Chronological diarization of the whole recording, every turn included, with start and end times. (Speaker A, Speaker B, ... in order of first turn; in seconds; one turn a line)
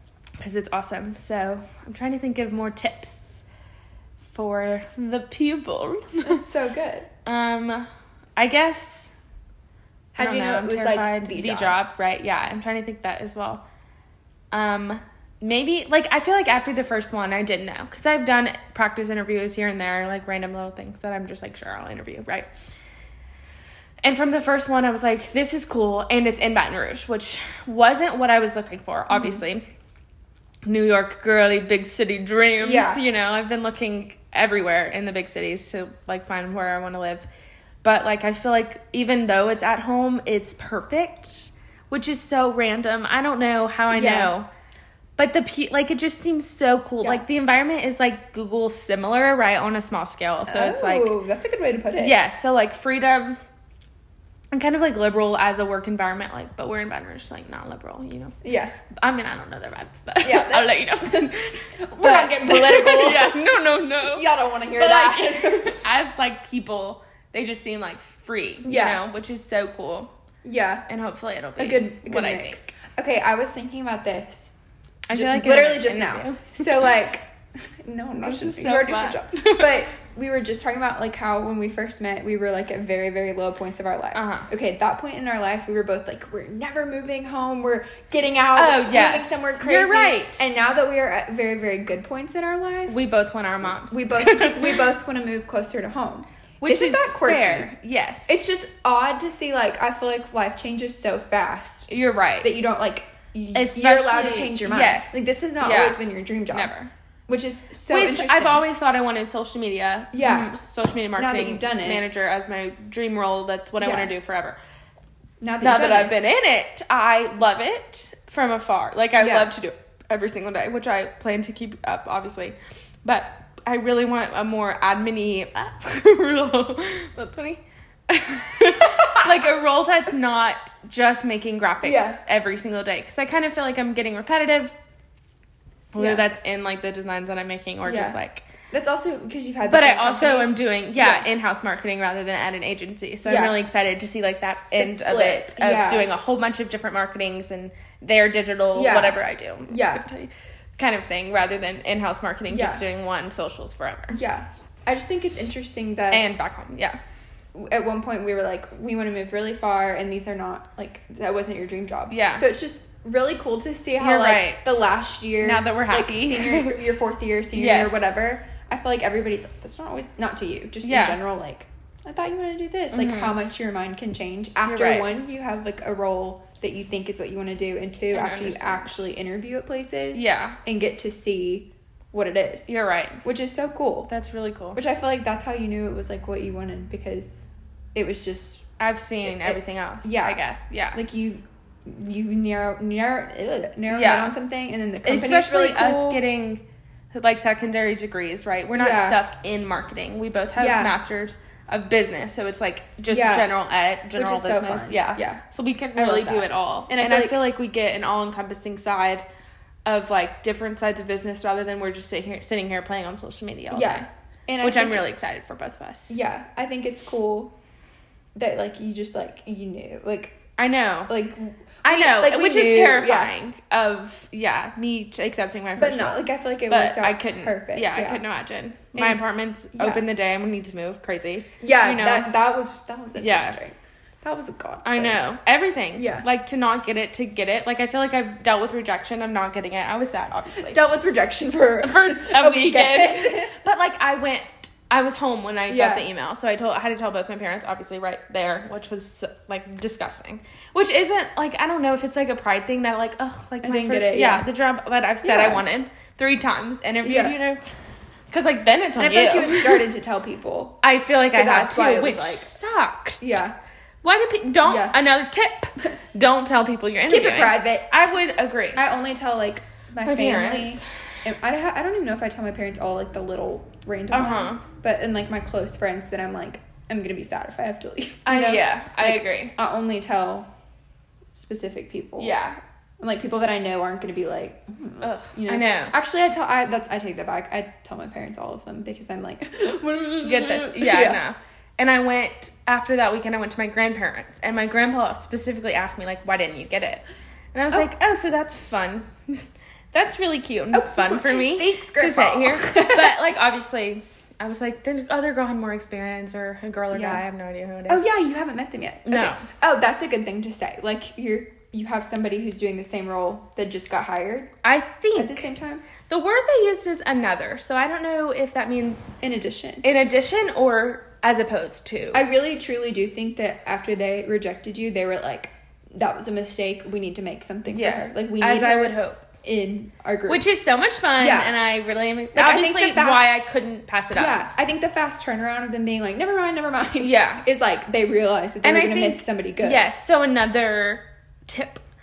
Speaker A: 0.4-3.4
Speaker A: 4.3-6.4
Speaker B: 6.2-7.1
Speaker A: 7.2-9.1
Speaker B: 10.1-11.8
Speaker A: 10.1-13.6
Speaker A: 14.5-22.5
Speaker A: 24.0-29.6
Speaker B: 29.1-29.4
Speaker A: 30.6-37.3
Speaker B: 32.6-33.0
Speaker A: 37.8-44.5
Speaker B: 43.9-44.3
Speaker A: 45.2-51.1
Speaker B: 47.0-47.2
Speaker B: 50.5-52.2
Speaker A: 52.0-53.4
Speaker A: 54.5-58.3
Speaker B: 58.4-58.7
Speaker A: 58.9-70.1
Speaker B: 60.2-65.8
Speaker B: 68.6-69.0
Speaker B: 70.4-70.8
Speaker A: 70.9-72.6
Speaker B: 71.6-74.5
Speaker A: 75.1-76.9
Speaker B: 75.1-93.0
Speaker A: 78.2-79.8
Speaker A: 84.1-84.5
Speaker A: 88.5-90.5
Speaker A: 92.9-94.9
Speaker B: 93.9-97.8
Speaker A: 96.6-98.4
Speaker B: 98.3-101.9
Speaker A: 101.9-102.5
Speaker B: 102.4-106.7
Speaker A: 103.5-106.9
Speaker B: 107.3-108.6
Speaker A: 107.9-114.6
Speaker B: 110.1-110.5
Speaker B: 111.2-112.0
Speaker B: 113.8-114.1
Speaker B: 115.4-116.1
Speaker A: 115.6-134.7
Speaker B: 119.2-119.5
Speaker B: 128.8-129.3
Speaker B: 131.8-132.2
Speaker A: 135.9-138.4
Speaker B: 136.0-136.2
Speaker B: 137.8-138.2
Speaker B: 138.7-141.3
Speaker A: 139.7-154.2
Speaker B: 143.2-143.5
Speaker B: 144.8-146.1
Speaker B: 148.7-150.1
Speaker B: 152.5-152.8
Speaker B: 154.1-156.2
Speaker A: 156.1-157.0
Speaker B: 157.5-182.7
Speaker A: 162.1-162.5
Speaker A: 164.0-164.8
Speaker A: 165.4-166.8
Speaker A: 167.5-168.1
Speaker A: 170.8-171.2
Speaker A: 172.9-173.3
Speaker A: 174.7-175.1
Speaker A: 178.1-178.9
Speaker A: 180.1-180.6
Speaker A: 182.7-183.2
Speaker B: 183.2-184.1
Speaker A: 184.1-184.8
Speaker B: 184.7-188.7
Speaker A: 188.8-191.0
Speaker B: 189.2-190.4
Speaker B: 190.9-196.2
Speaker A: 193.9-194.3
Speaker A: 195.0-209.2
Speaker B: 198.7-199.2
Speaker B: 200.6-200.9
Speaker B: 203.1-203.5
Speaker B: 204.1-205.4
Speaker B: 205.9-207.4
Speaker A: 209.8-214.1
Speaker B: 213.7-215.0
Speaker A: 214.6-216.1
Speaker B: 216.1-217.5
Speaker B: 218.3-220.4
Speaker A: 220.6-221.1
Speaker B: 221.1-223.3
Speaker A: 221.8-232.3
Speaker B: 225.8-228.2
Speaker B: 228.9-230.1
Speaker B: 231.6-235.2
Speaker A: 233.2-233.6
Speaker A: 234.8-240.8
Speaker B: 235.9-236.2
Speaker B: 240.7-243.5
Speaker A: 241.8-257.6
Speaker B: 245.7-246.0
Speaker B: 253.6-254.4
Speaker B: 255.2-255.6
Speaker B: 257.0-257.4
Speaker A: 258.3-259.8
Speaker B: 258.9-262.6
Speaker A: 260.8-263.2
Speaker B: 263.2-263.5
Speaker A: 264.0-268.8
Speaker B: 264.6-265.0
Speaker B: 267.1-268.2
Speaker B: 268.7-280.5
Speaker A: 270.0-270.8
Speaker A: 274.1-274.6
Speaker A: 278.2-279.5
Speaker B: 281.3-282.4
Speaker A: 282.2-282.6
Speaker B: 283.0-291.2
Speaker A: 285.0-285.9
Speaker A: 290.2-308.1
Speaker B: 300.7-303.4
Speaker B: 306.9-307.2
Speaker B: 307.9-314.5
Speaker A: 309.1-309.4
Speaker A: 314.6-315.5
Speaker B: 315.1-315.8
Speaker A: 316.1-319.1
Speaker B: 319.2-319.8
Speaker A: 319.8-322.2
Speaker B: 322.1-330.4
Speaker A: 327.7-329.3
Speaker A: 330.3-334.4
Speaker B: 331.2-331.5
Speaker B: 332.3-333.5
Speaker B: 334.1-339.8
Speaker A: 337.0-337.4
Speaker A: 338.6-341.8